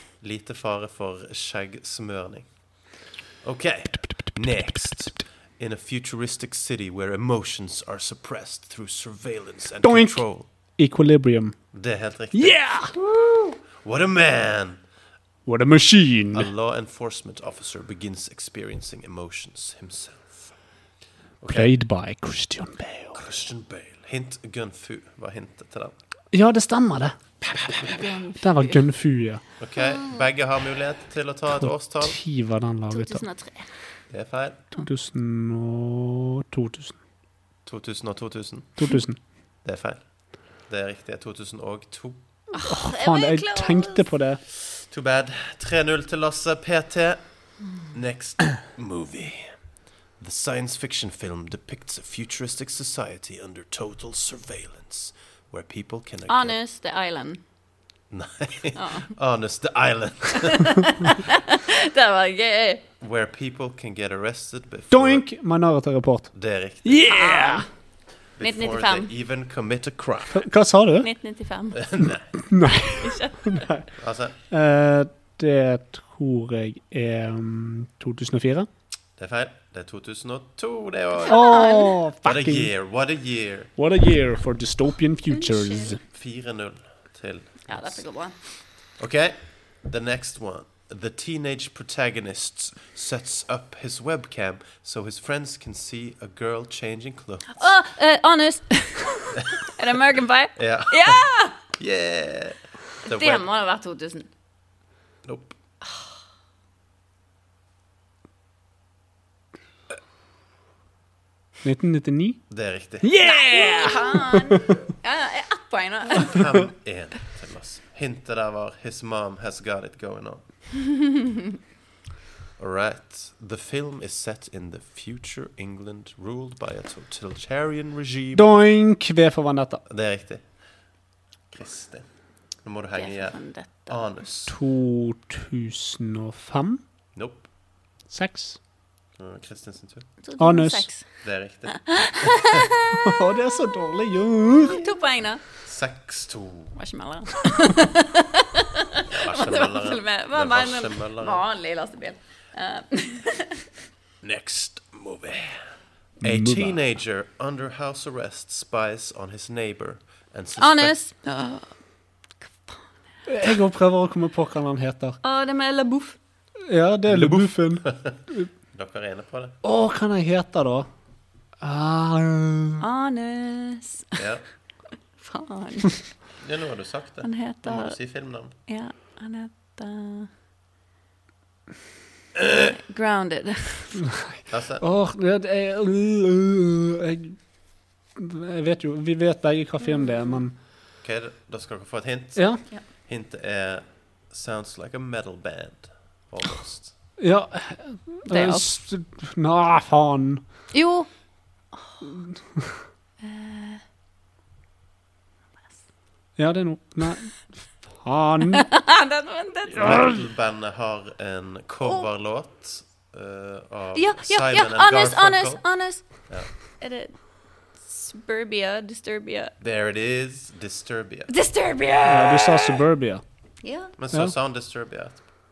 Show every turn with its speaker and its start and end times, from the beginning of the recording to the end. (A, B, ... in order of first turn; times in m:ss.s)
0:00.2-0:02.5 A
0:03.4-0:10.5 A
0:09.8-0:11.5 B
0:11.7-0:14.8 A
0:12.3-0:12.9 B
0:15.4-0:16.5 B
0:16.3-0:20.5 A
0:21.4-0:21.7 A
0:21.5-0:23.2 B
0:23.1-0:26.0 A
0:26.3-0:27.2 B
0:27.4-0:28.2 A
0:27.8-0:28.9 C
0:28.4-0:29.4 B
0:29.6-0:32.2 A
0:29.8-0:30.2 C
0:31.5-0:33.2 B
0:32.9-0:33.7 C
0:34.1-0:34.7 A
0:34.8-0:37.0 B
0:37.6-0:38.8 A
0:38.8-0:39.2 B
0:39.6-0:40.1 A
0:40.6-0:42.2 A
0:42.5-0:44.0 C
0:42.6-0:44.4 B
0:44.6-0:49.5 A
0:50.2-0:56.6 A
0:56.3-0:57.4 C
0:58.1-1:00.8 A
0:58.8-0:59.1 C
1:00.4-1:02.8 C
1:03.0-1:05.2 A
1:04.9-1:06.3 B
1:06.3-1:07.3 A
1:06.8-1:07.6 B
1:07.0-1:07.7 C
1:08.3-1:10.5 A
1:08.4-1:09.1 C
1:10.3-1:11.1 B
1:11.0-1:12.0 C
1:11.7-1:12.3 A
1:12.3-1:13.9 B
1:13.0-1:13.6 C
1:14.0-1:14.4 A
1:14.5-1:18.7 B
1:19.2-1:21.5 A
1:21.2-1:22.0 C
1:21.3-1:22.7 B
1:22.2-1:23.7 A
1:23.8-1:26.0 B
1:25.3-1:26.0 C
1:26.1-1:28.0 A
1:27.7-1:28.4 C
1:28.8-1:37.8 A
1:37.5-1:41.6 C
1:40.6-1:43.5 A
1:43.0-1:44.3 C
1:45.2-1:45.6 A
1:45.8-1:46.2 C
1:51.6-1:52.4 B
1:52.5-1:53.2 A
1:53.0-1:54.7 B
1:53.2-1:56.4 C
1:56.2-2:00.4 A
2:00.9-2:01.2 C
2:02.6-2:08.4 A
2:08.3-2:09.8 B
2:09.8-2:10.4 A
2:11.5-2:12.1 A
2:12.6-2:14.6 A
2:13.0-2:14.1 C
2:14.5-2:16.8 B
2:17.1-2:17.5 A
2:18.1-2:18.6 B
2:19.2-2:20.1 A
2:20.2-2:21.0 C
2:20.4-2:20.9 B
2:21.2-2:22.7 A
2:21.7-2:22.8 C
2:22.9-2:24.8 B
2:24.6-2:25.4 C
2:25.6-2:26.8 A
2:26.8-2:28.6 C
2:29.1-2:31.4 A
2:29.3-2:33.6 C
2:34.2-2:35.7 A
2:36.2-2:41.0 A
2:36.2-2:36.8 B
2:40.6-2:41.7 C
2:43.2-2:45.2 B
2:45.2-2:46.2 C
2:46.7-2:48.5 B
2:47.1-2:48.2 A
2:48.7-2:49.5 A
2:49.6-2:50.9 B
2:51.6-2:52.8 B
2:52.8-2:54.2 C
2:54.2-2:54.4 A
2:55.2-2:56.1 C
2:56.4-2:58.6 A
2:57.2-3:00.3 C
3:02.6-3:04.0 C
3:04.5-3:04.8 A
3:04.8-3:07.5 B
3:08.1-3:10.6 B
3:11.0-3:17.0 A
3:12.3-3:12.6 B
3:17.2-3:20.4 B
3:18.3-3:18.7 C
3:20.7-3:21.1 C
3:21.7-3:22.2 C
3:23.2-3:23.8 C
3:26.4-3:28.6 B
3:28.5-3:30.1 C
3:29.7-3:36.5 A
3:29.8-3:30.1 B
3:31.8-3:32.1 C
3:34.0-3:39.5 C
3:39.6-3:41.3 A
3:41.3-3:42.8 C
3:42.0-3:43.2 B
3:43.6-3:43.9 C
3:44.0-3:45.2 A